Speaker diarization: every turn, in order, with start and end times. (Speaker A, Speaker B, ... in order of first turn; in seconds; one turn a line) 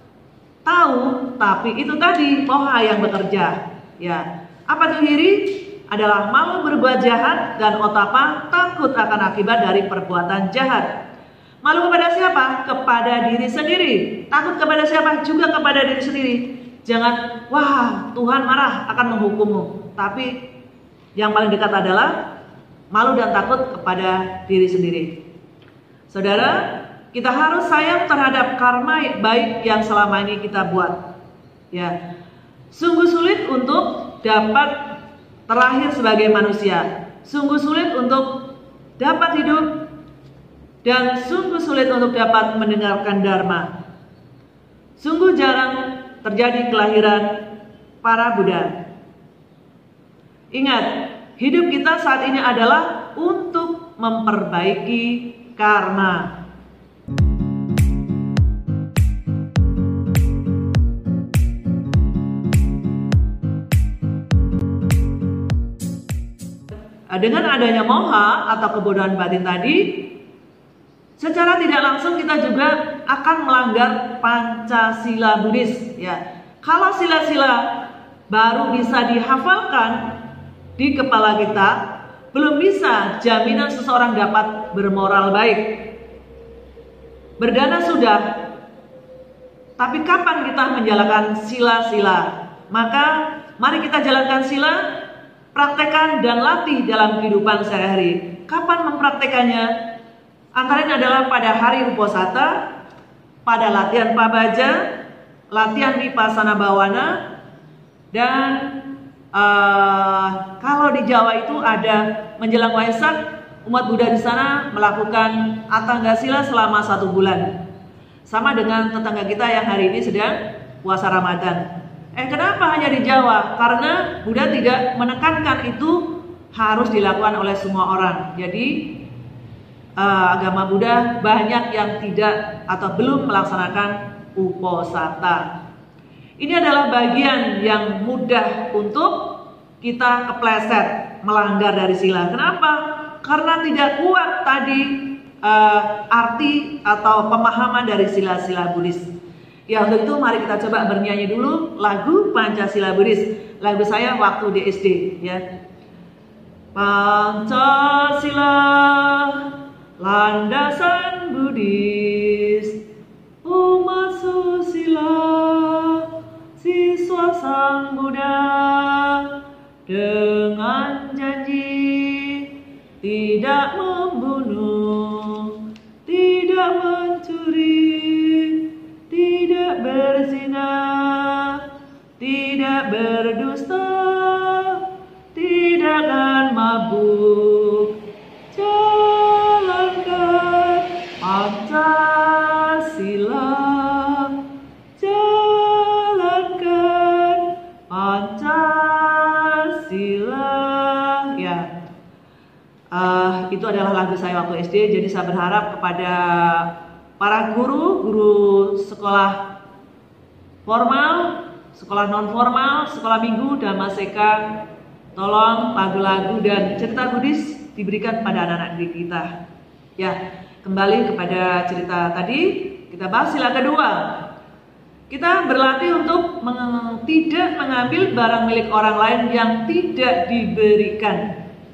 Speaker A: 0.6-10.9
Speaker A: 11.6-20.4
Speaker A: 21.1-22.2
Speaker A: 22.9-25.1
Speaker A: 26.1-31.0
Speaker A: 32.7-39.8
Speaker A: 40.8-43.7
Speaker A: 45.0-47.5
Speaker A: 48.0-48.8
Speaker A: 50.5-56.4
Speaker A: 67.1-70.1
Speaker A: 71.2-80.2
Speaker A: 80.8-85.9
Speaker A: 87.4-88.5
Speaker A: 89.8-95.0
Speaker A: 95.5-99.7
Speaker A: 100.5-102.7
Speaker A: 103.4-104.9
Speaker A: 105.5-107.2
Speaker A: 108.1-108.8
Speaker A: 109.3-117.5
Speaker A: 118.3-129.0
Speaker A: 130.0-135.5
Speaker A: 136.4-149.1
Speaker A: 149.7-155.4
Speaker A: 156.7-162.8
Speaker A: 163.4-169.3
Speaker A: 169.9-172.5
Speaker A: 173.0-181.7
Speaker A: 182.2-188.0
Speaker A: 188.5-194.4
Speaker A: 195.0-201.7
Speaker A: 202.9-209.5
Speaker A: 210.7-219.3
Speaker A: 220.0-224.3
Speaker A: 225.1-231.3